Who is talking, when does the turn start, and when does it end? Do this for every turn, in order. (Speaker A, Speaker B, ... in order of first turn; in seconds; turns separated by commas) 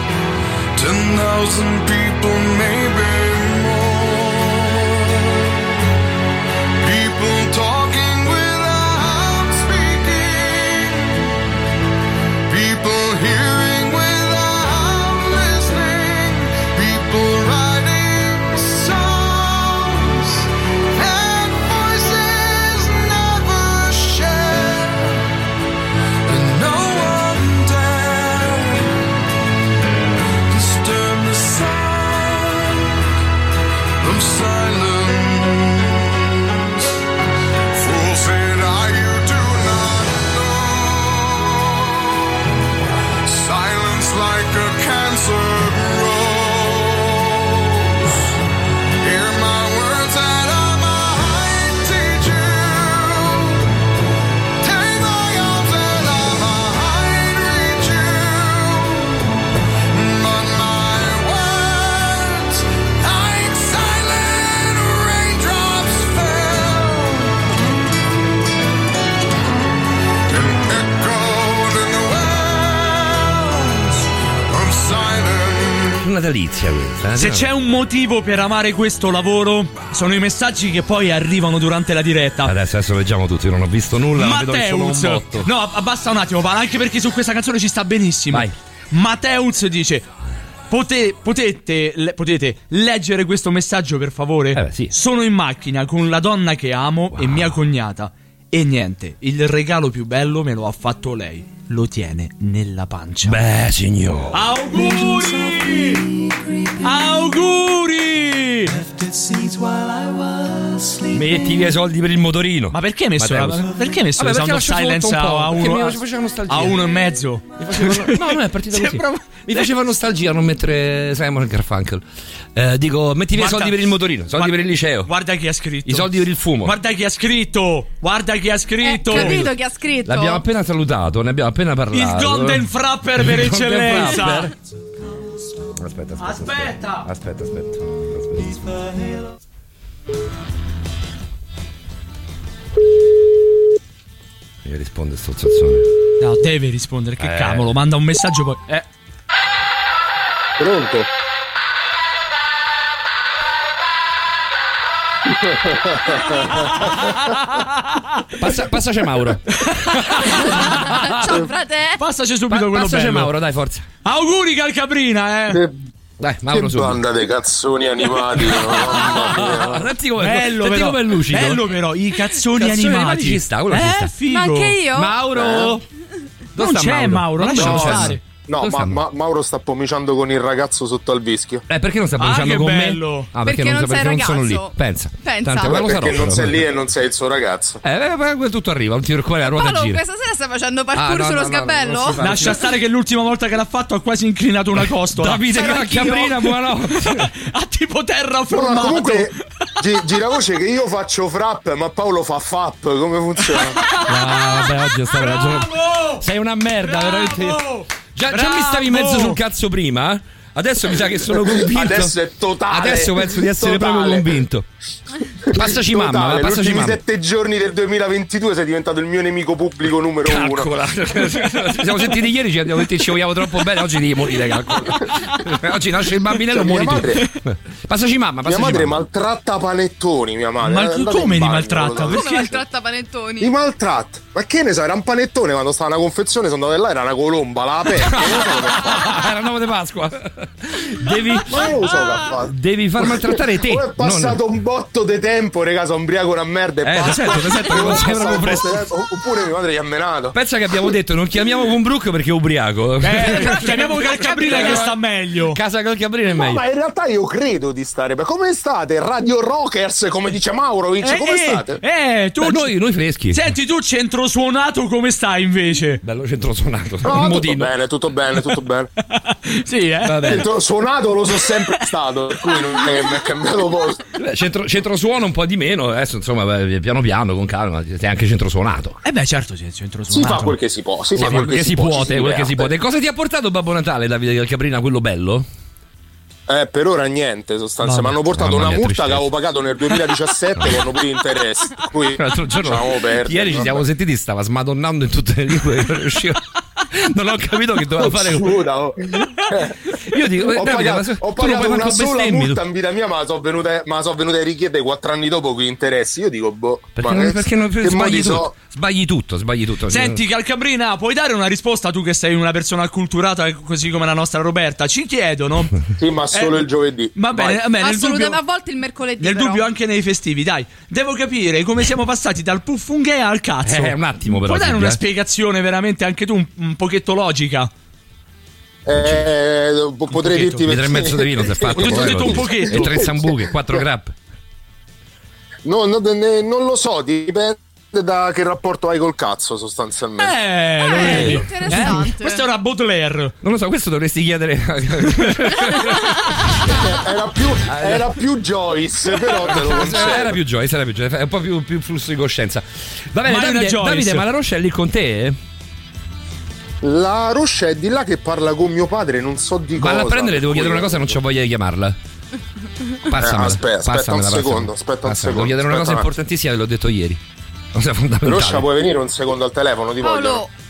Speaker A: 0.8-5.5, Speaker A: 6.8-11.2, Speaker A: 12.5-25.2, Speaker A: 26.3-29.0, Speaker A: 30.5-33.0, Speaker A: 34.0-36.8, Speaker A: 37.7-42.1, Speaker A: 43.2-48.2, Speaker A: 49.0-53.6, Speaker A: 54.6-59.2, Speaker A: 59.9-67.4, Speaker A: 70.3-76.0, Speaker B: 76.0-77.5, Speaker C: 77.1-82.5, Speaker B: 82.4-85.5, Speaker C: 84.2-90.1, Speaker C: 90.7-103.4, Speaker B: 94.5-94.9, Speaker B: 97.1-97.5, Speaker B: 103.2-104.4, Speaker C: 104.3-106.0, Speaker C: 106.8-108.8, Speaker B: 111.1-116.8, Speaker C: 112.7-119.7, Speaker B: 117.6-122.0, Speaker B: 122.5-125.1, Speaker C: 123.3-129.4, Speaker B: 125.8-126.8, Speaker D: 128.8-130.4, Speaker B: 129.1-129.5, Speaker B: 130.0-134.5, Speaker C: 131.9-134.5, Speaker B: 135.8-138.8, Speaker C: 136.2-137.1, Speaker B: 144.6-145.9, Speaker C: 146.2-148.8, Speaker B: 147.2-147.7, Speaker E: 150.6-151.1, Speaker E: 155.3-157.1, Speaker C: 156.4-158.3, Speaker B: 158.4-161.4, Speaker C: 159.5-160.9, Speaker D: 160.4-162.0, Speaker C: 162.0-163.3, Speaker B: 162.5-163.9, Speaker C: 164.0-165.6, Speaker B: 166.2-167.0, Speaker E: 166.5-169.9, Speaker B: 168.4-171.6, Speaker C: 169.0-169.4, Speaker C: 170.2-174.8, Speaker B: 172.5-174.1, Speaker D: 174.2-175.2, Speaker B: 174.9-175.8, Speaker E: 175.3-175.7, Speaker B: 176.5-179.0, Speaker C: 176.6-178.2, Speaker E: 177.5-181.6, Speaker B: 181.7-186.6, Speaker C: 182.2-183.3, Speaker D: 183.4-185.8, Speaker E: 185.6-187.8, Speaker B: 187.8-190.0, Speaker D: 189.4-192.2, Speaker B: 190.9-192.6, Speaker C: 192.2-199.3, Speaker B: 195.1-197.3, Speaker E: 198.5-203.8, Speaker C: 203.6-206.2, Speaker B: 204.0-212.2, Speaker C: 206.8-209.4, Speaker E: 211.3-214.4, Speaker B: 212.7-214.7, Speaker B: 215.5-217.0, Speaker E: 215.5-220.7, Speaker B: 220.2-229.0, Speaker E: 226.5-227.2, Speaker E: 228.4-232.3, Speaker C: 230.6-232.6, Speaker D: 232.1-233.5, Speaker E: 233.4-239.2, Speaker B: 237.9-241.8, Speaker E: 241.4-250.4, Speaker B: 242.3-244.4, Speaker B: 246.8-248.9, Speaker B: 250.3-254.9, Speaker C: 253.0-255.6, Speaker E: 254.4-254.8, Speaker B: 255.5-256.6, Speaker E: 256.3-261.8, Speaker C: 261.0-262.7, Speaker B: 262.4-263.5, Speaker C: 263.3-266.0, Speaker B: 266.0-267.7, Speaker E: 267.0-268.9, Speaker C: 269.1-270.4, Speaker B: 270.0-270.5, Speaker E: 270.2-274.1, Speaker B: 274.1-279.0, Speaker C: 279.0-280.6, Speaker E: 280.1-282.7, Speaker B: 281.1-285.5, Speaker E: 286.5-293.8, Speaker C: 287.8-288.1, Speaker B: 288.2-289.3, Speaker B: 290.6-290.8, Speaker B: 292.1-298.6, Speaker E: 297.9-299.8, Speaker B: 300.1-302.6, Speaker E: 300.4-308.5, Speaker B: 307.0-310.2, Speaker C: 309.9-315.8, Speaker E: 316.0-317.6, Speaker C: 316.3-316.6, Speaker C: 317.1-318.4, Speaker D: 317.8-319.6, Speaker C: 319.2-327.7, Speaker B: 323.6-325.0, Speaker E: 328.9-333.8, Speaker B: 329.0-329.3, Speaker C: 330.1-330.6, Speaker B: 330.6-334.1, Speaker C: 331.8-333.0, Speaker E: 335.6-340.3, Speaker C: 340.2-343.4, Speaker D: 340.9-342.4, Speaker B: 341.0-342.0, Speaker B: 343.4-346.8, Speaker E: 346.6-350.4, Speaker B: 347.7-348.1, Speaker B: 349.4-355.4, Speaker C: 353.2-354.2, Speaker E: 356.8-361.2, Speaker B: 359.8-362.0, Speaker B: 363.1-367.2, Speaker E: 363.1-366.1, Speaker B: 367.7-368.7, Speaker E: 368.2-370.4, Speaker D: 370.0-370.5